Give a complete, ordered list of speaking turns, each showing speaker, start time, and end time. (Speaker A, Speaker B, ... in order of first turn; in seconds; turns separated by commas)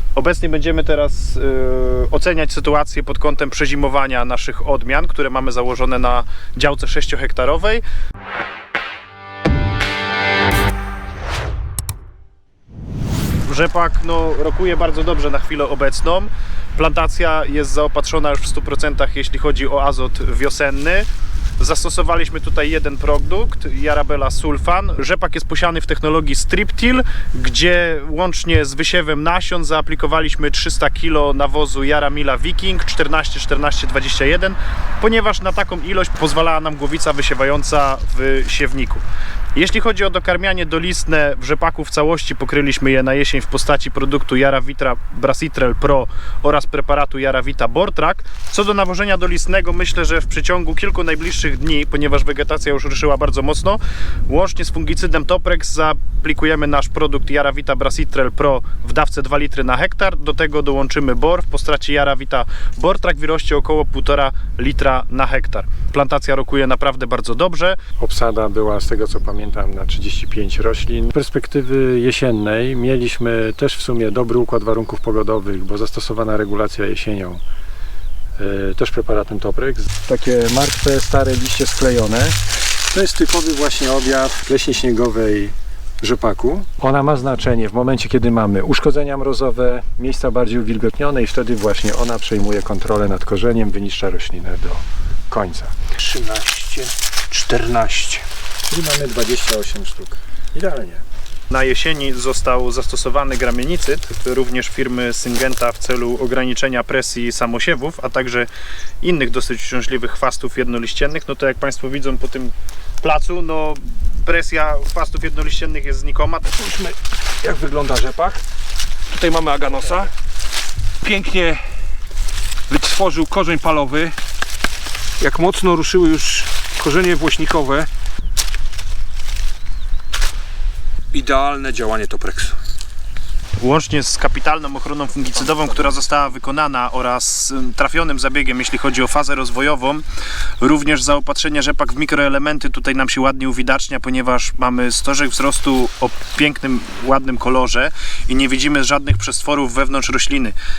Speaker A: 0.1-7.8, Speaker A: 13.4-21.1, Speaker A: 21.6-39.0, Speaker A: 39.5-67.8, Speaker B: 68.0-77.4, Speaker B: 78.4-82.4, Speaker B: 82.9-95.7, Speaker C: 96.0-98.2, Speaker B: 98.7-101.0, Speaker A: 101.5-108.5, Speaker A: 109.0-116.5, Speaker C: 116.5-118.4, Speaker C: 119.1-120.1, Speaker C: 121.0-121.6, Speaker C: 122.7-124.1, Speaker C: 125.2-127.9, Speaker C: 131.1-132.6, Speaker A: 133.6-140.0, Speaker A: 140.6-150.6